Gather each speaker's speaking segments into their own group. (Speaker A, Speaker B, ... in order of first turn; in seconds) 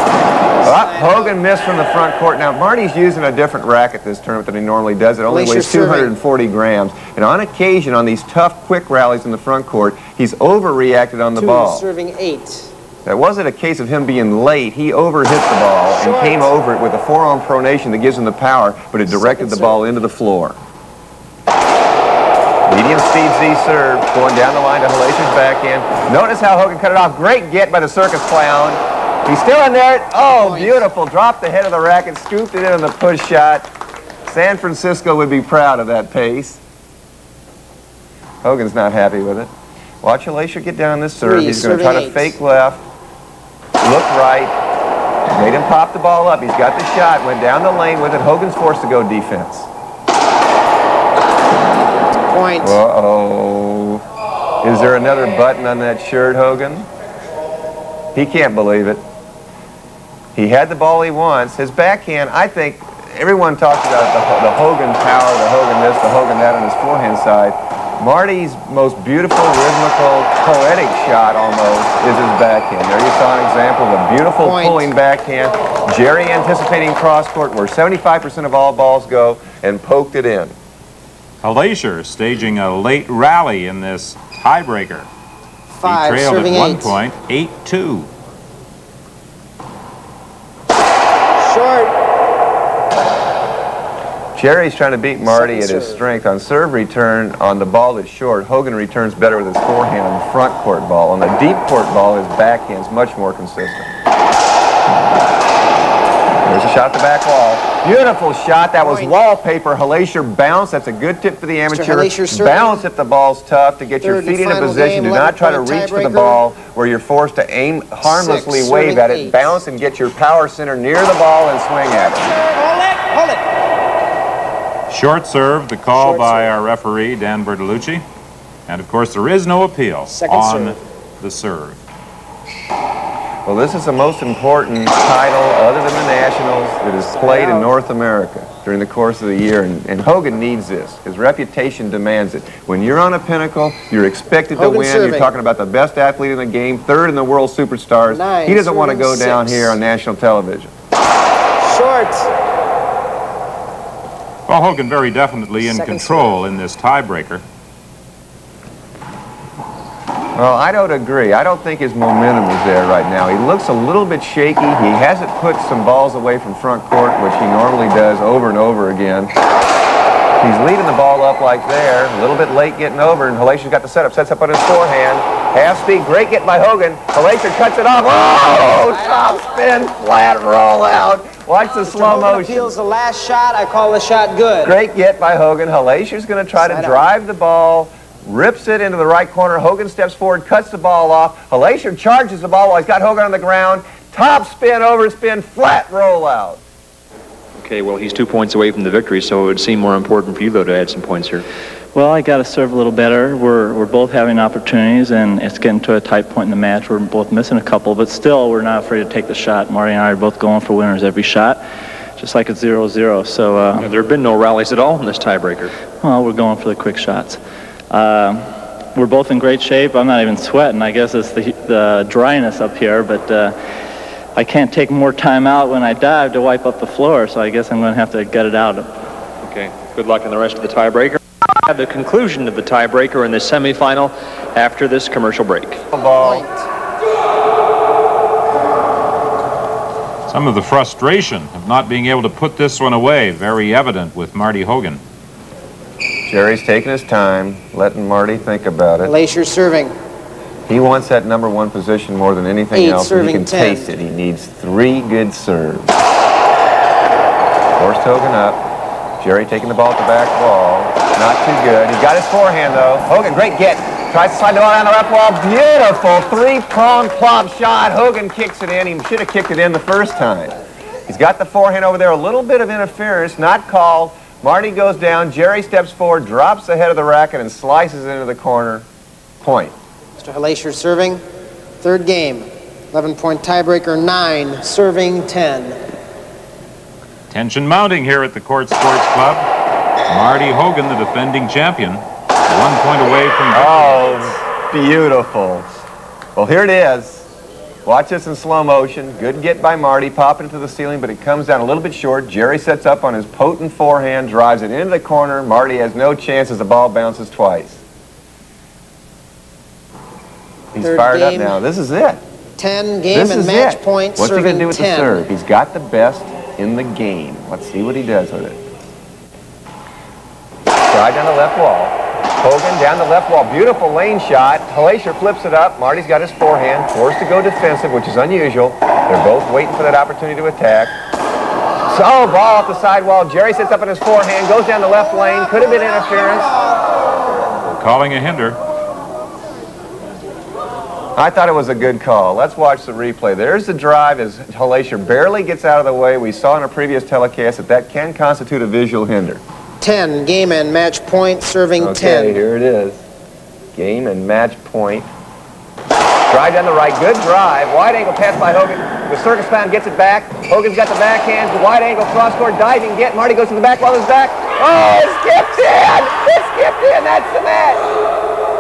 Speaker A: 0.6-1.4, 5.3-6.1, 11.4-12.7, 15.9-16.5, 19.1-19.8, 30.3-30.8, 41.2-42.3, 52.3-52.8, 74.4-74.9, 85.7-87.0, 91.4-92.0, 95.2-96.0, 108.8-109.1, 111.7-112.8, 114.0-116.4, 118.0-119.4, 122.1-123.5, 125.9-126.5, 130.1-130.8, 137.0-137.7, 144.6-145.3, 148.1-149.8, 151.6-152.3, 155.6-156.4, 181.8-184.8, 186.6-187.0, 236.2-236.7, 249.0-249.9, 252.7-253.9, 280.2-281.2, 281.8-285.8, 310.8-311.6, 312.6-315.2, 335.1-337.1, 349.8-352.4
Speaker B: 0.6-11.9, 13.1-20.6, 22.7-33.7, 34.3-36.6, 38.4-39.5, 40.0-42.8, 43.8-44.6, 45.3-49.7, 52.6-54.0, 54.6-56.9, 58.1-59.0, 60.4-80.6, 94.3-103.9, 106.4-122.4, 133.5-150.7, 160.4-169.3, 170.4-182.7, 184.6-196.6, 235.9-236.4, 246.3-249.2, 250.7-256.0, 257.8-258.6, 259.2-278.9, 279.4-279.8, 293.5-295.7, 296.4-297.3, 297.9-307.8, 310.7-312.2, 313.1-318.6, 320.9-331.0, 331.9-336.5, 341.2-349.4, 351.8-353.0, 353.7-355.1, 356.3-367.9
Speaker C: 81.4-85.1, 85.8-88.1, 124.9-128.1, 128.7-131.8, 154.5-157.4, 240.3-245.0, 287.3-289.5, 290.1-294.1, 337.6-338.6
Speaker D: 197.6-201.4, 213.8-215.7, 229.4-235.8
Speaker E: 201.9-211.6, 212.2-213.9, 216.0-217.4, 217.9-223.6, 224.4-228.9